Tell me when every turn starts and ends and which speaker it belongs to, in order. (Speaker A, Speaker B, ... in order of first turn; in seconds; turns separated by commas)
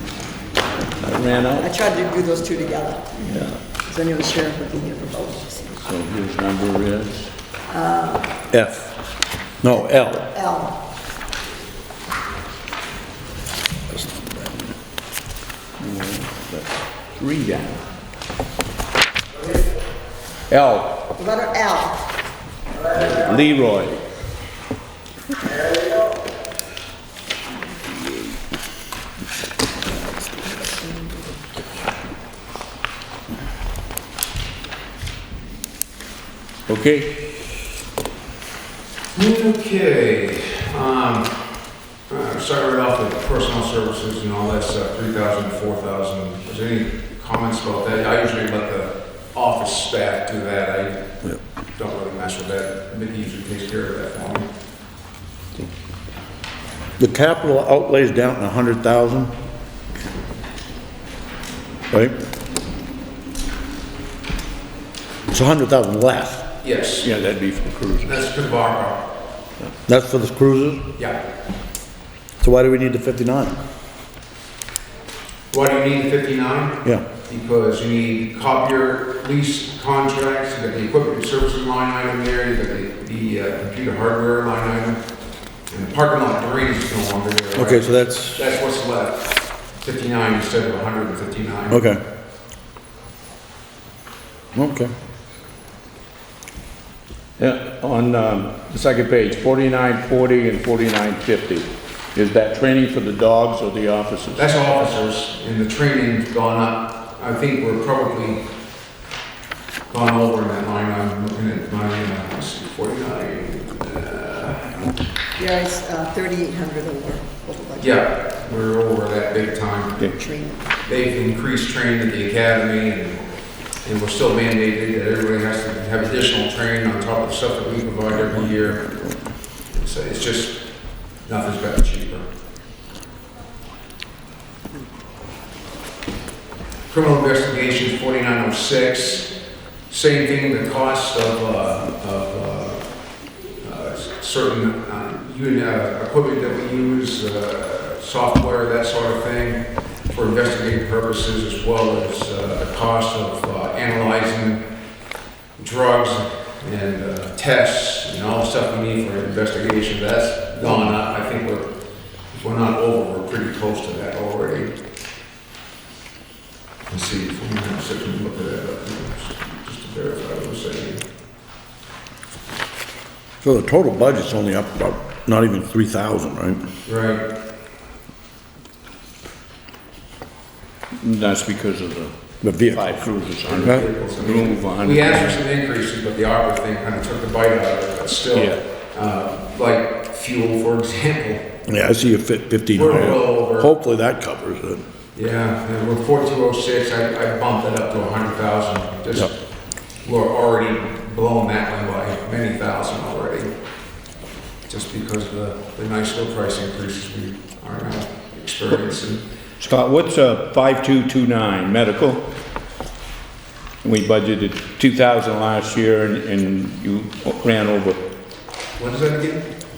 Speaker A: 1.0-1.7, Speaker B: 1.6-5.8, Speaker A: 3.2-3.6, Speaker A: 5.8-7.3, Speaker B: 7.7-8.3, Speaker C: 8.5-8.9, Speaker C: 9.6-10.3, Speaker B: 9.7-10.8, Speaker C: 13.9-14.7, Speaker A: 15.8-17.8, Speaker A: 20.5-21.0, Speaker B: 21.1-22.1, Speaker A: 22.9-24.0, Speaker B: 29.8-31.3, Speaker A: 36.7-37.5, Speaker D: 39.1-51.2, Speaker D: 51.8-54.5, Speaker C: 57.0-59.3, Speaker C: 61.9-62.1, Speaker C: 65.3-66.4, Speaker D: 66.6-67.1, Speaker A: 67.0-68.2, Speaker D: 68.0-69.0, Speaker C: 69.9-70.8, Speaker C: 72.4-73.6, Speaker D: 75.5-85.0, Speaker D: 85.7-91.8, Speaker C: 87.5-88.4, Speaker C: 91.7-92.0, Speaker C: 94.5-94.9, Speaker A: 97.4-104.5, Speaker D: 104.3-108.4, Speaker D: 109.9-114.9, Speaker B: 115.4-118.0, Speaker D: 117.8-120.1, Speaker B: 120.0-120.7, Speaker D: 120.8-123.2, Speaker D: 123.8-128.9, Speaker D: 129.7-130.6, Speaker D: 131.2-132.2, Speaker D: 136.9-139.3, Speaker D: 139.9-142.8, Speaker D: 143.6-154.6, Speaker D: 155.6-161.7, Speaker D: 162.3-164.7, Speaker D: 166.9-171.0, Speaker C: 173.4-176.6, Speaker D: 176.8-177.2, Speaker A: 181.0-185.4, Speaker C: 182.4-183.0, Speaker D: 183.5-191.5, Speaker A: 188.3-188.6, Speaker C: 191.7-194.8, Speaker D: 192.7-193.7, Speaker D: 195.1-199.3, Speaker D: 200.0-203.5, Speaker D: 204.7-209.2, Speaker A: 209.6-212.2, Speaker A: 213.8-218.0, Speaker D: 218.8-219.5